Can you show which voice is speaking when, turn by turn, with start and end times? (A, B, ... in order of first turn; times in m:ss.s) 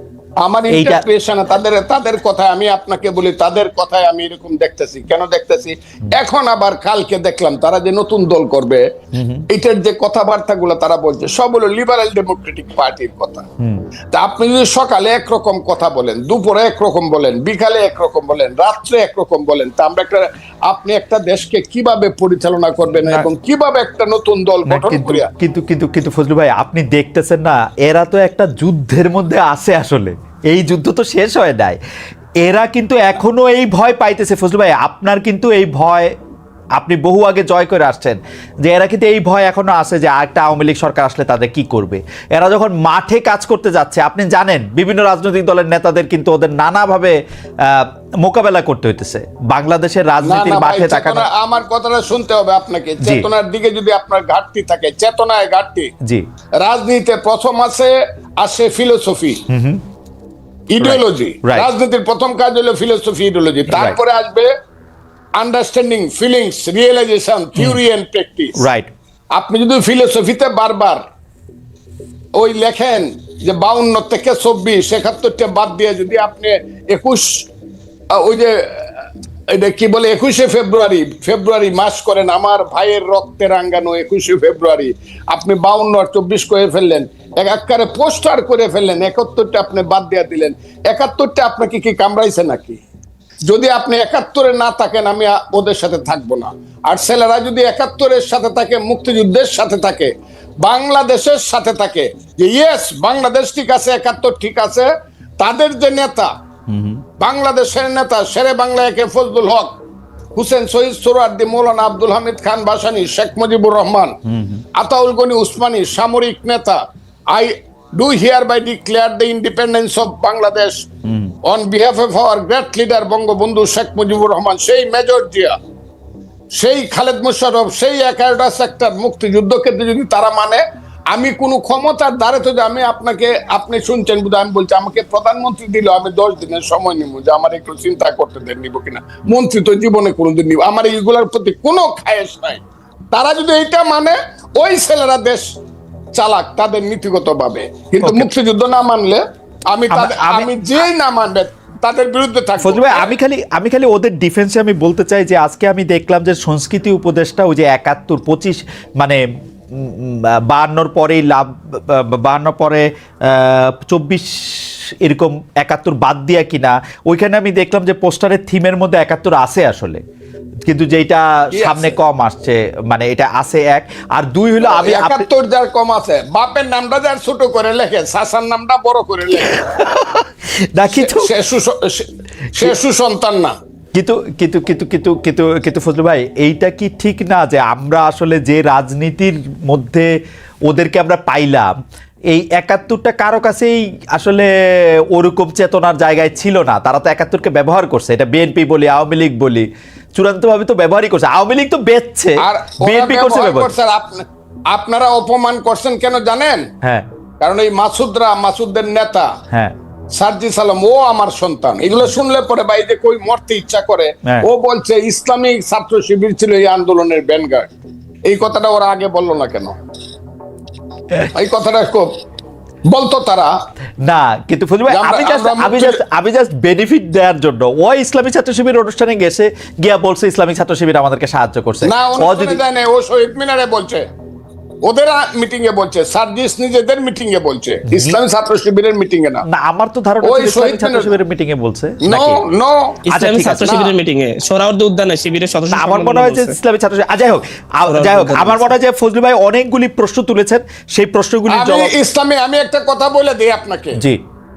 0:00.4-0:08.8 A
0:00.7-0:01.0 B
0:09.1-0:09.4 B
0:09.5-0:13.5 A
0:14.1-0:25.3 A
0:23.0-0:23.3 B
0:24.7-0:31.8 B
0:32.4-0:36.1 B
0:36.8-0:51.3 B
0:50.2-0:55.9 A
0:53.0-0:53.3 B
0:56.6-0:59.4 A
0:59.5-0:59.8 B
1:00.7-1:04.5 A
1:00.8-1:01.7 B
1:03.7-1:04.0 B
1:05.4-1:08.6 A
1:08.6-1:08.9 B
1:09.3-1:11.0 A
1:12.4-1:17.5 A
1:18.1-1:18.7 A
1:19.5-1:32.8 A
1:33.5-1:44.9 A
1:45.4-1:46.3 A
1:46.7-1:47.0 B
1:47.2-1:49.8 A
1:50.4-1:54.2 A
1:54.3-1:54.6 B
1:54.8-2:00.9 A
2:01.0-2:01.3 B
2:01.4-2:05.6 A
2:06.6-2:25.4 A
2:26.1-2:33.1 A
2:28.0-2:28.3 B
2:29.9-2:30.5 B
2:32.6-2:39.2 B
2:39.7-2:50.0 B
2:50.6-2:55.3 B
2:51.5-2:52.0 A
2:54.6-2:59.8 A
2:59.5-3:01.3 B
3:00.9-3:03.5 A
3:03.9-3:10.1 B
3:10.7-3:11.7 B
3:12.3-3:14.5 B
3:15.1-3:23.7 B
3:22.4-3:26.7 A
3:27.4-3:29.3 A
3:30.1-3:37.7 A
3:38.3-3:39.8 A
3:41.4-3:42.1 A
3:42.9-3:43.5 A
3:44.0-3:52.6 B
3:44.9-3:46.0 A
3:51.8-3:54.0 A
3:54.8-3:59.4 A
3:57.9-3:58.2 B
3:59.5-4:02.4 B
4:00.2-4:01.2 A
4:02.0-4:03.0 A
4:03.1-4:06.6 C
4:03.1-4:03.8 B
4:03.6-4:03.9 A
4:05.7-4:11.9 B
4:07.9-4:08.7 C
4:11.5-4:14.0 A